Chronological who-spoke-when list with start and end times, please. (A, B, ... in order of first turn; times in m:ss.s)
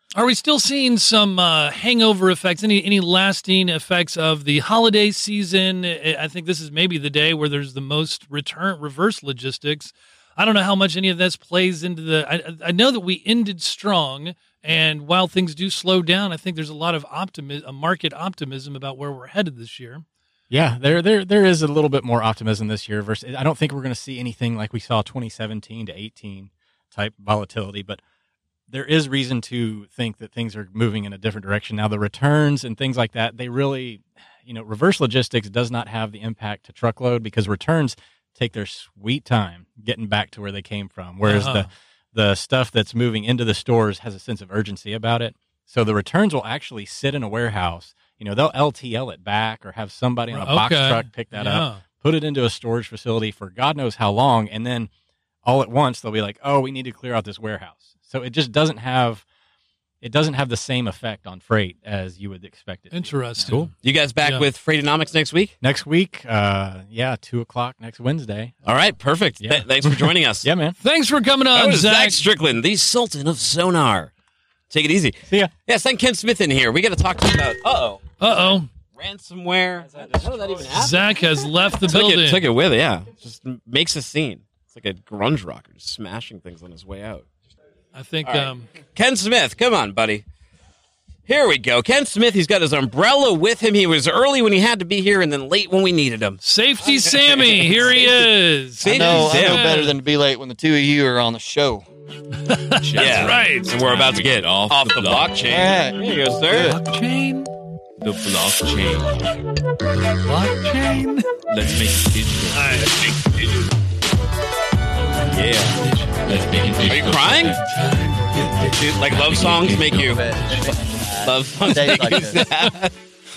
0:00.2-0:20.0 A
0:20.5-0:28.0 B
0:28.7-0:54.9 B
0:41.2-0:41.7 A
0:50.3-0:51.8 A
0:55.4-0:59.2 B
1:00.0-1:03.7 B
1:02.9-1:03.6 A
1:03.5-1:05.5 C
1:05.6-1:08.5 B
1:08.6-1:10.5 C
1:09.4-1:10.8 B
1:10.8-1:12.2 A
1:11.5-1:14.1 C
1:14.7-1:21.1 C
1:18.2-1:18.7 A
1:20.7-1:22.4 A
1:21.9-1:27.3 C
1:28.0-1:28.7 A
1:28.3-1:30.2 C
1:31.3-1:38.1 C
1:36.4-1:40.0 A
1:38.8-1:39.8 C
1:38.8-1:41.9 D
1:42.5-1:43.6 A
1:42.8-1:45.8 E
1:43.0-1:46.8 C
1:45.5-1:46.8 D
1:46.5-1:47.5 A
1:48.0-1:49.4 E
1:50.2-1:51.3 A
1:51.5-1:53.7 E
1:52.5-1:52.9 A
1:55.3-1:55.8 C
1:56.1-2:00.3 E
1:56.9-1:57.6 C
1:57.7-1:58.6 A
1:58.6-2:00.2 C
1:59.9-2:02.5 D
2:01.2-2:02.9 C